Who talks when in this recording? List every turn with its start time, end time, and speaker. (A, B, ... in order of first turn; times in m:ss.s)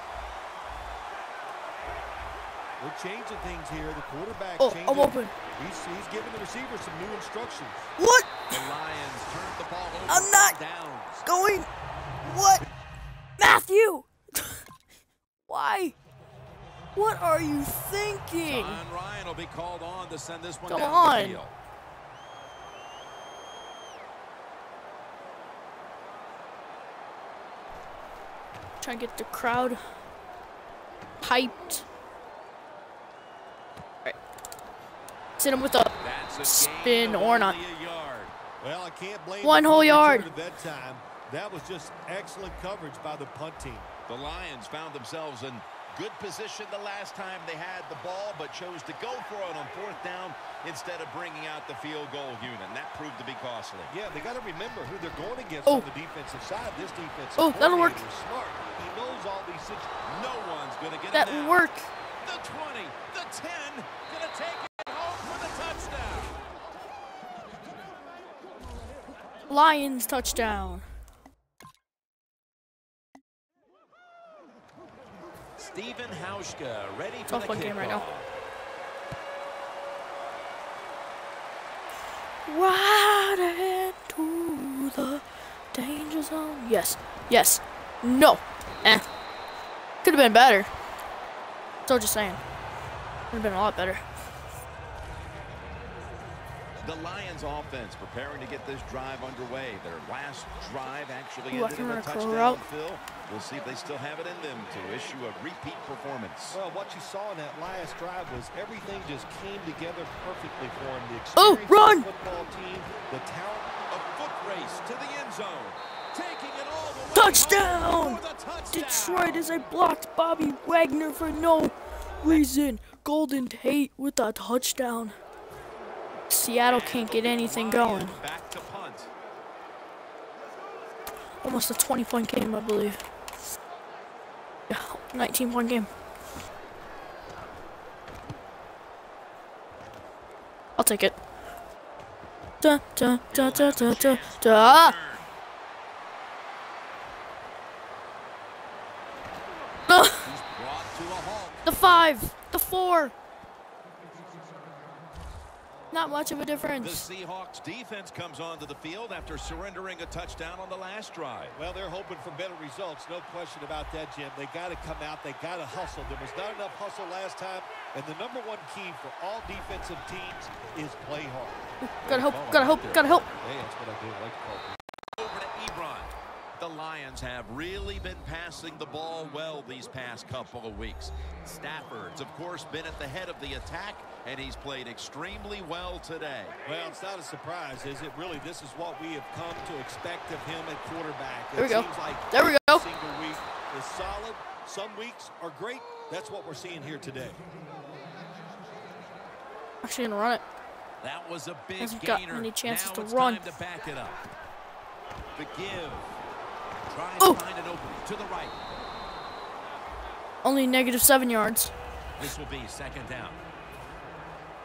0:02.8-0:07.8 A
0:04.6-0:05.3 B
0:08.0-0:08.5 B
0:08.5-0:11.2 C
0:10.1-0:10.6 B
0:11.2-0:11.7 B
0:12.2-0:12.6 B
0:13.4-0:14.6 B
0:15.5-0:15.9 B
0:16.9-0:18.8 B
0:18.5-0:21.5 C
0:20.7-0:21.4 B
0:28.8-0:29.8 B
0:31.2-0:31.8 B
0:35.4-0:37.6 B
0:36.0-0:38.3 C
0:38.6-0:43.9 A
0:39.4-0:40.3 B
0:44.1-0:53.9 C
0:53.9-0:59.9 A
0:57.4-0:58.0 B
1:00.0-1:01.6 C
1:01.1-1:01.9 B
1:02.2-1:06.4 C
1:09.5-1:10.8 B
1:15.6-1:18.3 C
1:17.3-1:18.0 B
1:22.4-1:29.0 B
1:30.0-1:30.7 B
1:31.8-1:32.4 B
1:33.3-1:34.0 B
1:36.8-1:46.6 C
1:41.5-1:42.6 B
1:46.5-1:53.8 A
1:51.4-1:52.0 B
1:53.9-1:59.4 C
1:57.1-2:05.1 B
2:06.3-2:08.2 B
2:06.6-2:09.1 C
2:11.4-2:13.0 B
2:14.7-2:15.9 B
2:20.8-2:21.2 B
2:22.6-2:24.9 B
2:23.3-2:25.3 C
2:29.9-2:30.3 B
2:30.2-2:31.6 C
2:31.6-2:33.1 B
2:35.9-2:37.0 B
2:36.8-2:41.6 C
2:41.5-2:51.6 A
2:51.8-2:53.2 B
2:52.0-2:53.3 C
2:53.4-2:54.8 A
2:55.2-3:06.6 C
3:06.6-3:17.4 A
3:11.6-3:12.9 B
3:19.8-3:20.4 B
3:21.0-3:24.2 C
3:21.8-3:23.5 B
3:25.4-3:26.1 C
3:26.9-3:28.6 C
3:30.4-3:31.7 B
3:32.2-3:33.4 C